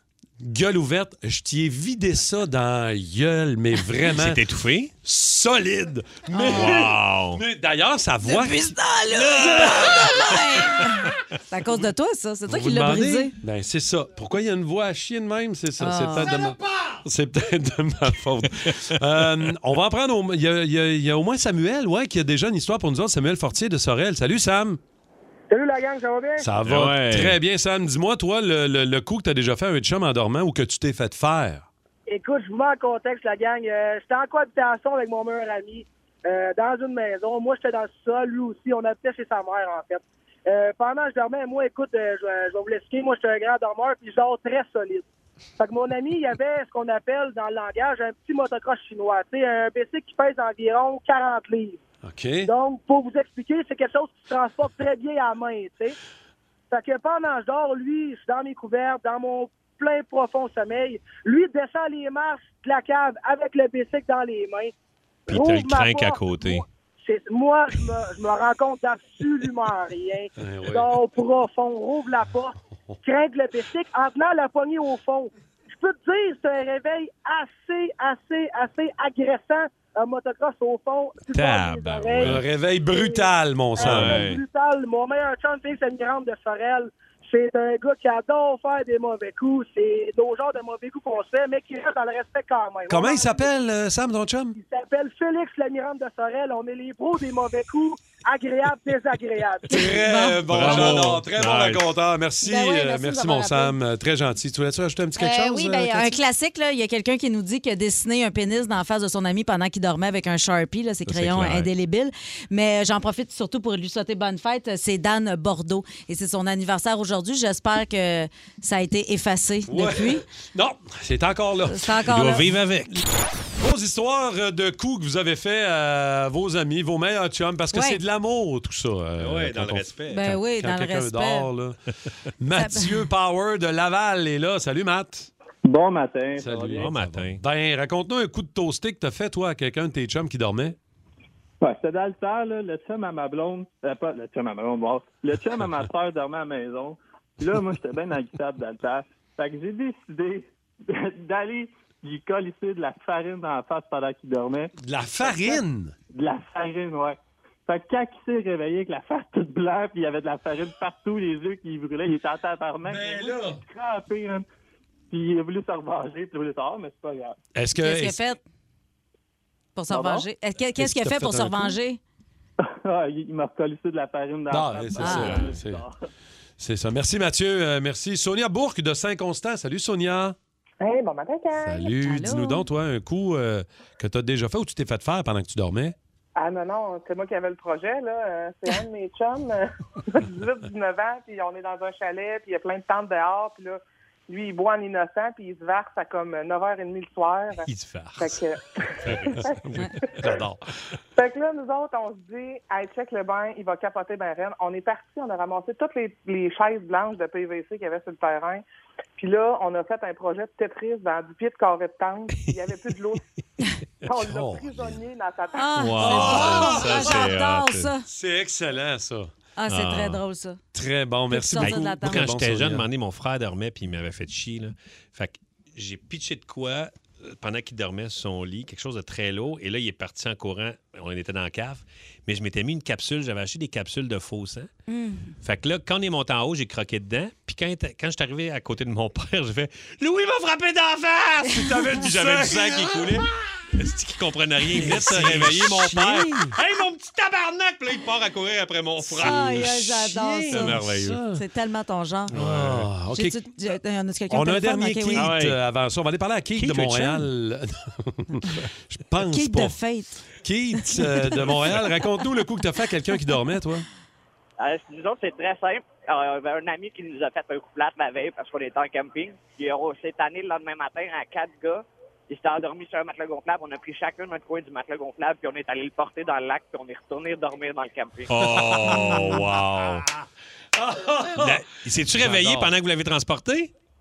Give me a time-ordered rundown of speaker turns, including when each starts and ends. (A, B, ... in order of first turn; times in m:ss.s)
0:00.4-0:04.4 A
0:04.0-0:04.9 B
0:05.0-0:08.7 A
0:06.3-0:06.8 C
0:06.5-0:07.4 B
0:08.2-0:13.3 C
0:09.1-0:10.3 B
0:09.4-0:10.1 A
0:12.5-0:24.8 A
0:15.8-0:16.3 C
0:25.5-0:26.4 D
0:26.4-0:31.7 A
0:26.6-0:27.4 B
0:32.1-0:45.0 D
0:45.6-0:51.8 D
0:52.0-0:52.5 A
0:52.4-0:55.9 D
0:56.7-1:04.7 D
1:05.3-1:22.4 D
1:05.3-1:06.6 B
1:10.4-1:10.9 A
1:21.3-1:22.4 B
1:22.2-1:24.2 A
1:22.9-1:33.5 D
1:23.8-1:24.4 B
1:32.9-1:34.6 A
1:34.6-1:39.8 D
1:39.7-1:46.2 A
1:39.7-1:41.0 C
1:40.5-1:41.8 B
1:42.4-1:43.8 C
1:45.2-2:00.2 C
1:51.1-1:51.7 B
1:59.6-2:01.9 A
2:01.7-2:02.4 C
2:02.1-2:03.0 B
2:03.6-2:11.8 A
2:07.7-2:08.0 C
2:09.2-2:10.2 B
2:10.1-2:11.5 C
2:12.4-2:15.3 A
2:12.6-2:13.0 C
2:15.6-2:16.9 E
2:16.4-2:20.8 A
2:16.7-2:17.4 B
2:21.6-2:35.6 E
2:34.8-2:35.9 A
2:36.2-2:44.4 E
2:42.8-2:43.6 A
2:45.1-2:47.4 E
2:47.5-2:48.2 A
2:47.8-2:48.4 C
2:49.8-2:52.0 C
2:49.9-2:50.2 E
2:50.8-2:51.8 A
2:52.6-2:55.9 E
2:54.5-2:55.8 A
2:55.0-2:55.4 C
2:56.6-3:00.4 A
3:00.8-3:01.8 F
3:01.5-3:05.9 A
3:01.8-3:02.7 C
3:06.4-3:17.6 F
3:17.6-3:18.4 B
3:18.2-3:18.6 F
3:19.0-3:19.9 B
3:19.2-3:19.6 F
3:20.2-3:20.6 A
3:21.2-3:28.6 F
3:29.2-3:33.2 F
3:32.3-3:32.6 B
3:34.1-3:35.0 A
3:34.1-3:35.7 F
3:35.5-3:38.0 C
3:35.7-3:37.9 B
3:36.0-3:37.3 A
3:38.1-3:39.3 A
3:39.6-3:40.6 C
3:39.7-3:40.2 B
3:40.7-3:42.8 A
3:41.3-3:42.3 C
3:41.6-3:54.7 B
3:54.9-3:55.3 C
3:55.4-4:09.7 B
4:01.5-4:03.2 A
4:04.7-4:06.5 A
4:09.1-4:11.4 A
4:09.2-4:12.3 C
4:10.5-4:11.2 B
4:12.3-4:12.9 B
4:12.3-4:13.4 A
4:13.1-4:15.3 C
4:14.3-4:19.8 A
4:15.1-4:15.6 B
4:16.6-4:17.3 B
4:19.2-4:20.2 C
4:20.4-4:23.8 A
4:20.8-4:21.4 C
4:24.6-4:38.3 G
4:38.3-4:40.0 B
4:38.5-4:39.4 A
4:40.8-4:42.7 A
4:41.4-4:43.7 B